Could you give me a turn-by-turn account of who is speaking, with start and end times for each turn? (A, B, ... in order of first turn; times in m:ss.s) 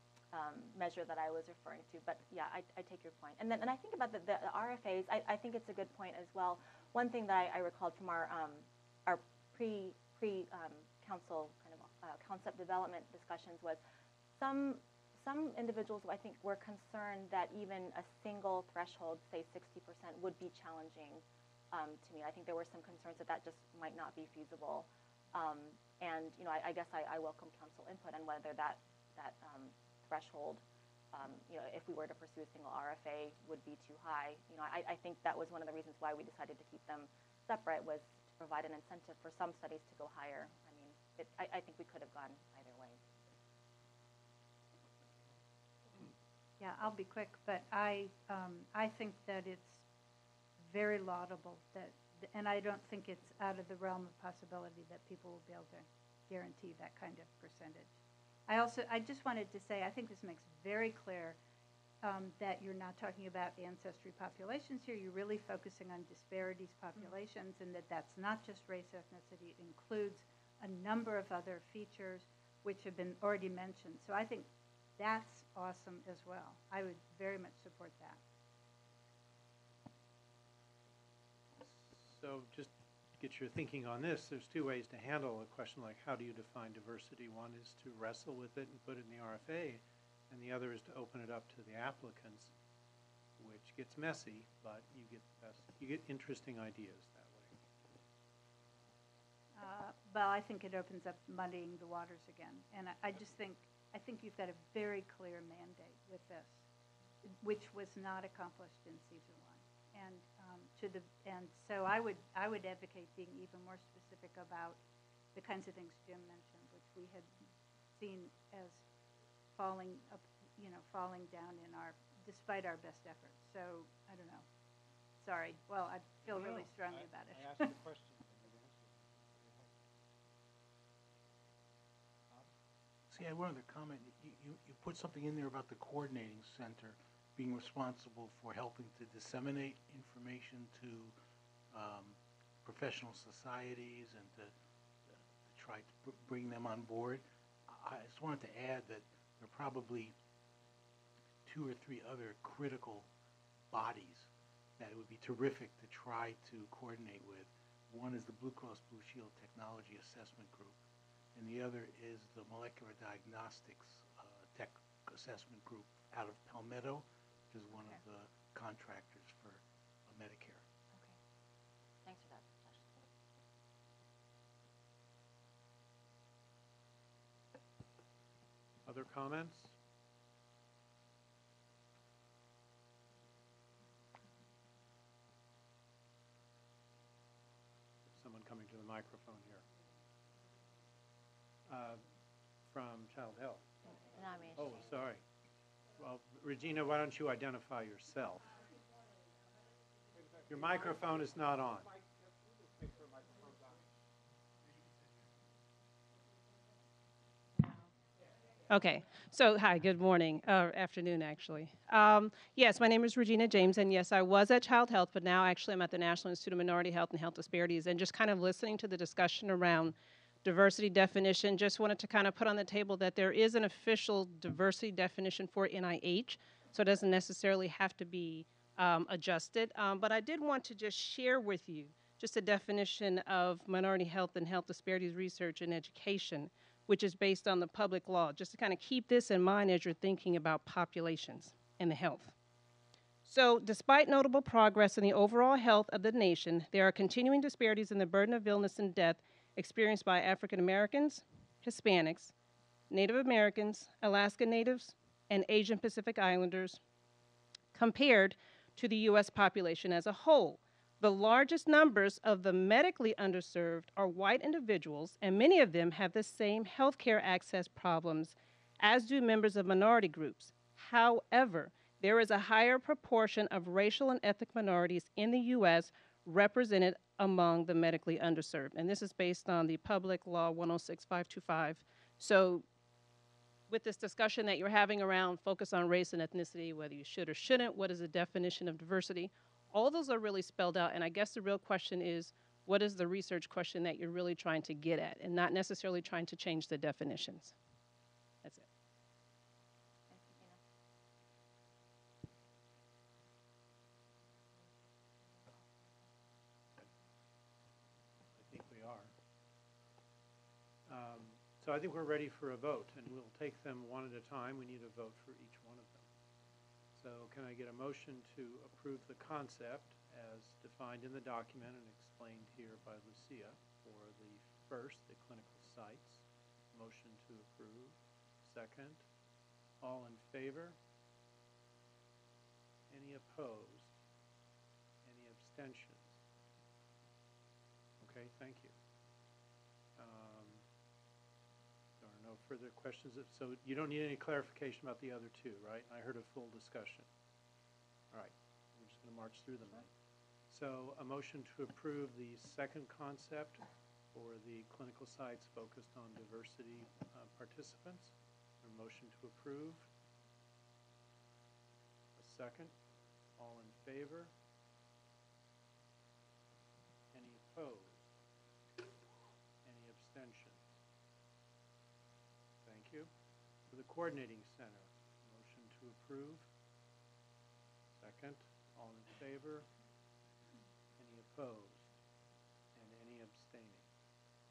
0:00.3-0:13.8 A
0:14.4-0:43.0 A
0:46.6-0:49.8 B
0:50.6-0:57.9 B
0:58.5-1:01.4 B
1:02.0-1:18.2 B
1:21.6-1:32.5 C
1:33.4-1:37.5 C
1:39.5-1:46.6 B
1:47.2-1:54.8 B
1:55.3-1:57.3 B
1:57.9-1:58.8 B
1:59.5-2:04.4 B
2:05.2-2:07.7 B
2:06.2-2:09.8 D
2:13.1-2:21.1 E
2:21.7-2:24.5 E
2:25.1-2:30.1 E
2:31.4-2:33.1 E
2:33.7-2:40.8 E
2:41.3-2:50.6 E
2:47.7-2:48.0 A
2:50.9-2:51.2 A
2:52.0-2:53.0 A
2:58.8-2:59.7 C
3:08.1-3:09.6 C
3:11.6-3:12.0 C
3:12.6-3:13.6 C
3:13.9-3:14.8 A
3:14.5-3:15.2 C
3:16.0-3:18.5 C
3:20.1-3:23.9 D
3:20.5-3:21.9 C
3:28.7-4:02.3 F
4:03.2-4:12.3 F
4:12.9-4:16.8 F
4:17.7-4:42.6 F
4:43.7-4:57.5 F
5:00.1-5:00.6 A
5:08.3-5:09.1 C
5:10.8-5:16.1 C
5:16.9-5:29.0 C
5:29.8-5:30.8 C
5:32.9-5:33.9 C
5:35.0-5:36.2 C
5:38.0-5:38.7 C
5:40.0-5:40.6 C
5:42.0-5:47.1 C
5:48.1-5:49.9 C
5:50.5-5:59.9 C
6:02.2-6:02.8 C
6:03.4-6:04.3 C
6:07.1-6:08.1 C
6:09.6-6:10.6 C
6:12.6-6:13.1 C
6:13.7-6:16.5 C
6:18.0-6:19.7 C
6:21.0-6:21.9 C
6:22.7-6:23.8 C